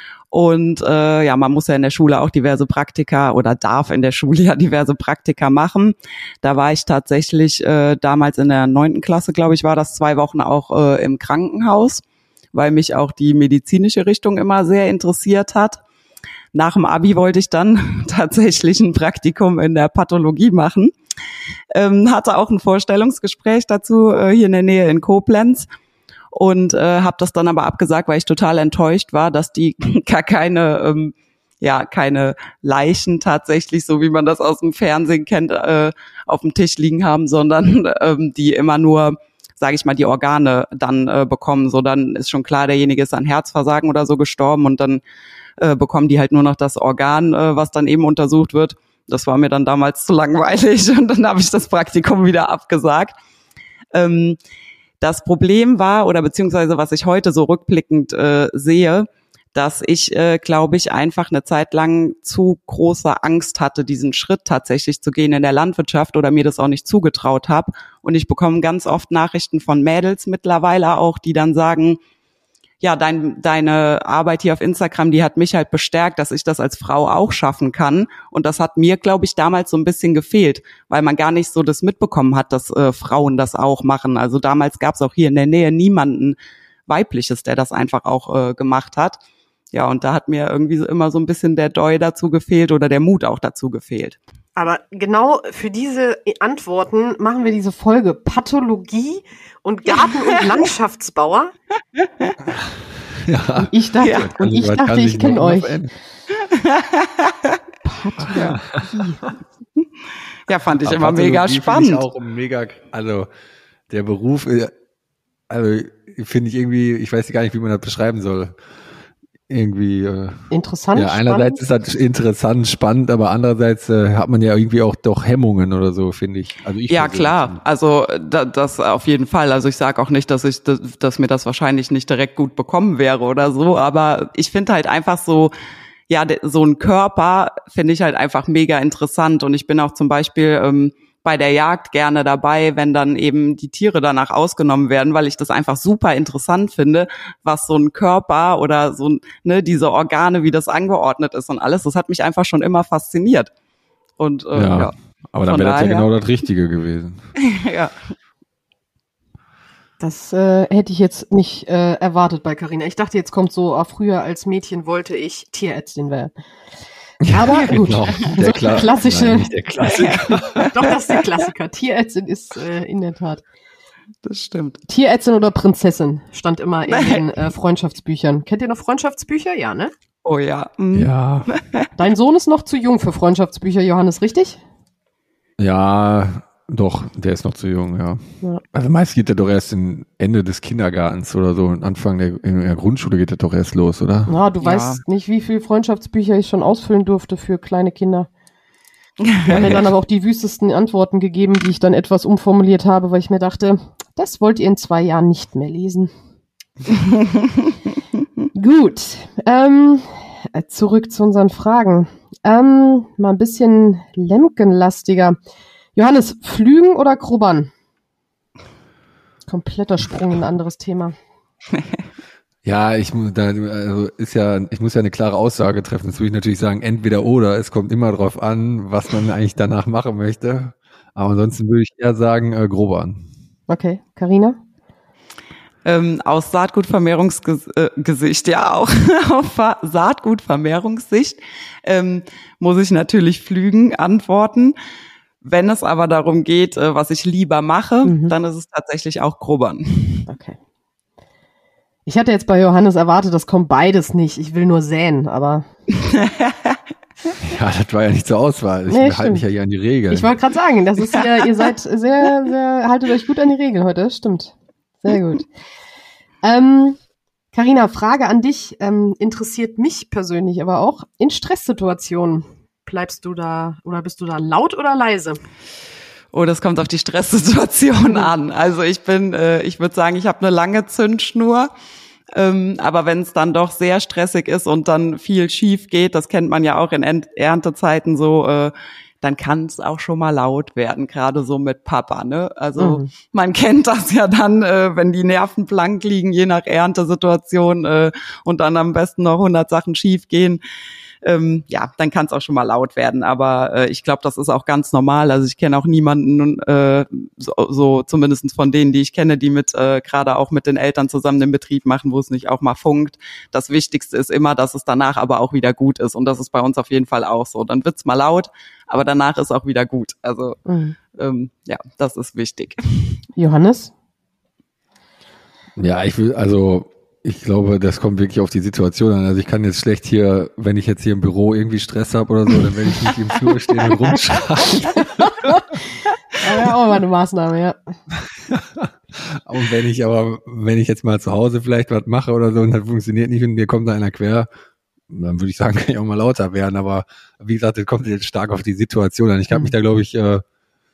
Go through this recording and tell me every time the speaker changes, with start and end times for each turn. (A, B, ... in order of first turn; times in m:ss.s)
0:00.3-0:15.8 A
0:16.5-0:20.9 A
0:21.7-0:25.7 A
0:26.3-0:45.0 A
0:45.6-0:53.2 A
0:53.9-0:54.4 A
0:55.0-1:12.0 A
1:12.8-1:26.4 A
1:26.9-1:29.2 A
1:29.7-1:34.2 A
1:34.6-1:41.5 B
1:42.0-1:42.3 A
1:42.6-1:45.9 C
1:43.6-1:45.8 B
1:44.0-1:44.3 A
1:46.4-1:47.6 A
1:47.8-1:49.2 B
1:48.2-1:48.9 C
1:48.3-1:48.6 A
1:50.5-1:52.0 A
1:50.7-1:53.3 C
1:53.9-1:54.7 C
1:55.5-1:58.6 C
1:59.5-2:07.6 C
2:00.5-2:01.6 B
2:06.9-2:15.5 A
2:16.1-2:33.5 A
2:34.2-2:34.9 A
2:34.5-2:37.2 C
2:35.5-2:36.1 A
2:37.4-2:38.0 A
2:40.0-2:46.3 B
2:47.2-2:50.7 C
2:47.3-2:49.5 B
2:49.9-2:50.9 A
2:50.7-2:53.4 B
2:54.2-2:54.8 A
2:54.9-2:59.9 B
2:56.9-2:57.2 A
3:00.2-3:01.9 A
3:00.9-3:01.5 C
3:02.0-3:04.6 B
3:05.6-3:08.2 C
3:08.7-3:14.4 C
3:14.3-3:18.3 B
3:14.6-3:15.0 A
3:19.2-3:19.8 A
3:19.5-3:19.8 C
3:19.5-3:26.1 B
3:28.6-3:35.4 B
3:36.0-3:37.7 B
3:39.5-3:41.2 B
3:41.7-3:42.0 A
3:42.6-3:53.2 C
3:53.7-3:54.6 B
3:55.8-4:04.8 A
4:05.4-4:10.3 A
4:08.0-4:08.3 B
4:10.3-4:10.6 B
4:12.1-4:15.6 B
4:16.0-4:16.8 A
4:17.4-4:20.3 C
4:18.9-4:19.4 B
4:20.1-4:25.5 B
4:26.4-4:27.0 B
4:27.5-4:35.4 B
4:36.3-4:41.7 A
4:42.3-5:00.6 A
4:52.8-4:53.1 B
5:01.2-5:20.6 A
5:20.7-5:21.0 B
5:21.1-5:23.2 A
5:23.4-5:23.9 B
5:25.8-5:35.3 C
5:35.0-5:35.6 B
5:36.4-5:37.8 B
5:38.2-5:44.5 C
5:45.1-5:50.4 C